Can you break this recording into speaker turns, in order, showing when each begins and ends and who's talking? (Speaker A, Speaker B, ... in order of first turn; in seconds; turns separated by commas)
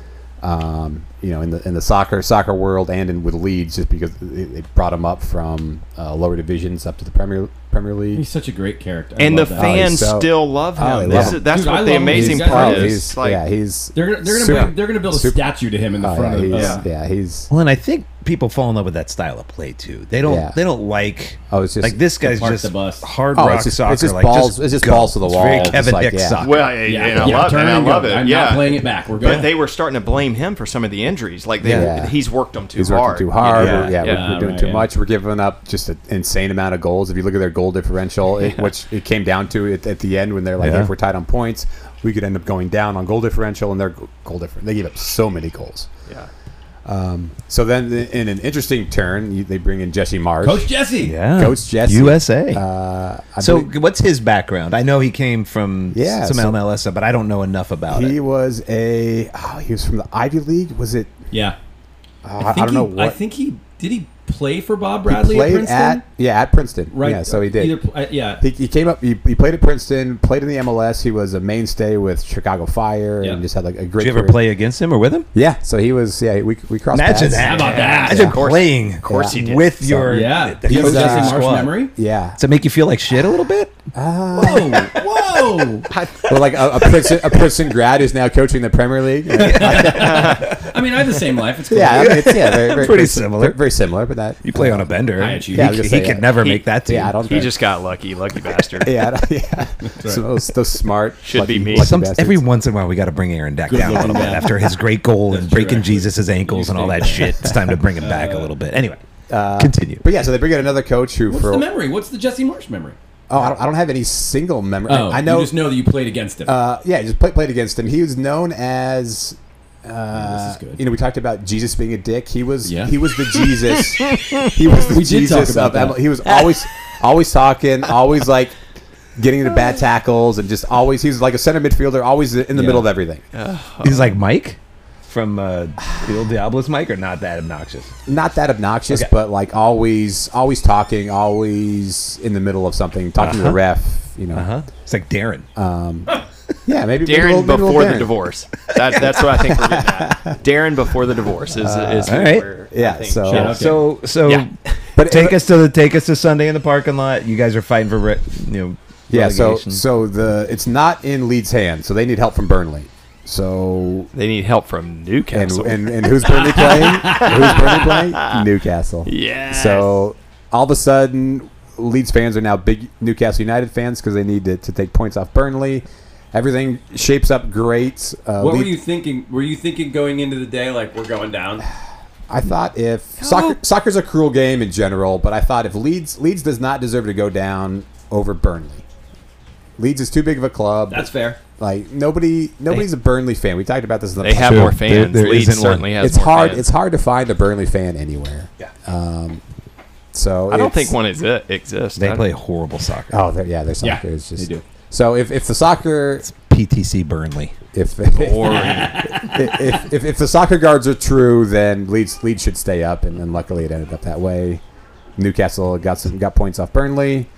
Speaker A: 0.4-8.2, Speaker B: 8.1-9.9, Speaker C: 9.2-13.4, Speaker A: 9.5-11.4, Speaker B: 11.1-13.1, Speaker A: 12.1-15.4, Speaker B: 13.9-16.8, Speaker A: 16.0-17.5, Speaker C: 16.5-16.8, Speaker D: 17.5-27.4, Speaker A: 20.2-20.6, Speaker A: 21.5-22.0, Speaker B: 22.2-23.1, Speaker A: 23.3-26.6, Speaker C: 26.4-34.3, Speaker B: 26.8-29.5, Speaker D: 31.6-31.9, Speaker A: 31.6-32.1, Speaker A: 32.7-45.9, Speaker D: 33.5-34.0, Speaker B: 34.0-34.9, Speaker C: 38.4-38.7, Speaker D: 40.6-40.9, Speaker A: 46.8-50.7, Speaker B: 50.4-51.1, Speaker D: 51.0-52.6, Speaker A: 51.3-53.7, Speaker D: 53.4-58.2, Speaker A: 55.9-56.6, Speaker A: 57.9-61.2, Speaker B: 61.3-61.6, Speaker A: 62.2-63.2, Speaker B: 62.4-66.0, Speaker A: 65.1-67.8, Speaker B: 66.9-68.4, Speaker A: 68.4-74.4, Speaker D: 74.0-75.3, Speaker A: 75.3-78.4, Speaker D: 76.9-81.8, Speaker B: 77.4-78.4, Speaker C: 77.4-79.7, Speaker A: 79.0-82.4, Speaker B: 80.1-81.9, Speaker D: 82.3-83.8, Speaker A: 83.9-84.9, Speaker B: 84.3-85.9, Speaker D: 84.6-85.0, Speaker C: 85.9-86.5, Speaker A: 86.3-90.6, Speaker B: 89.3-92.3, Speaker D: 89.4-90.7, Speaker C: 89.8-90.5, Speaker A: 91.7-97.5, Speaker D: 91.9-93.6, Speaker D: 94.4-97.2, Speaker B: 95.2-95.8, Speaker C: 96.4-96.7, Speaker C: 97.2-99.0, Speaker A: 98.8-102.4, Speaker B: 99.8-100.2, Speaker C: 101.2-101.9, Speaker D: 101.7-109.0, Speaker B: 103.7-104.6, Speaker A: 103.7-104.5, Speaker B: 105.3-108.5, Speaker A: 109.3-111.6, Speaker D: 109.5-110.0, Speaker B: 111.3-113.0, Speaker A: 113.3-115.6, Speaker B: 114.9-116.5, Speaker A: 116.5-128.6, Speaker B: 120.1-120.8, Speaker B: 122.6-122.9, Speaker B: 124.9-126.1, Speaker A: 129.2-133.2, Speaker D: 132.5-132.9, Speaker C: 133.3-134.1, Speaker D: 133.8-137.9, Speaker A: 138.1-144.5, Speaker D: 143.2-143.6, Speaker D: 144.3-145.5, Speaker A: 145.6-148.1, Speaker C: 147.0-153.5, Speaker A: 149.3-150.3, Speaker A: 151.5-153.8, Speaker D: 152.1-152.5, Speaker B: 152.9-153.8, Speaker D: 153.3-159.8, Speaker C: 154.2-154.7, Speaker A: 154.9-155.4, Speaker A: 159.1-164.1, Speaker C: 164.1-168.4, Speaker A: 165.3-178.8, Speaker C: 169.1-170.0, Speaker B: 178.4-181.6, Speaker A: 182.3-188.8, Speaker C: 183.2-183.6, Speaker A: 189.8-194.8, Speaker B: 190.9-191.4, Speaker C: 194.2-196.7, Speaker D: 194.3-195.9, Speaker A: 196.0-199.4, Speaker A: 200.1-200.9, Speaker C: 200.5-202.2, Speaker D: 202.0-203.2, Speaker A: 203.1-206.3, Speaker B: 203.8-204.6, Speaker D: 206.2-207.5, Speaker A: 207.7-214.6, Speaker C: 208.1-209.2, Speaker B: 208.5-209.3, Speaker A: 215.2-217.3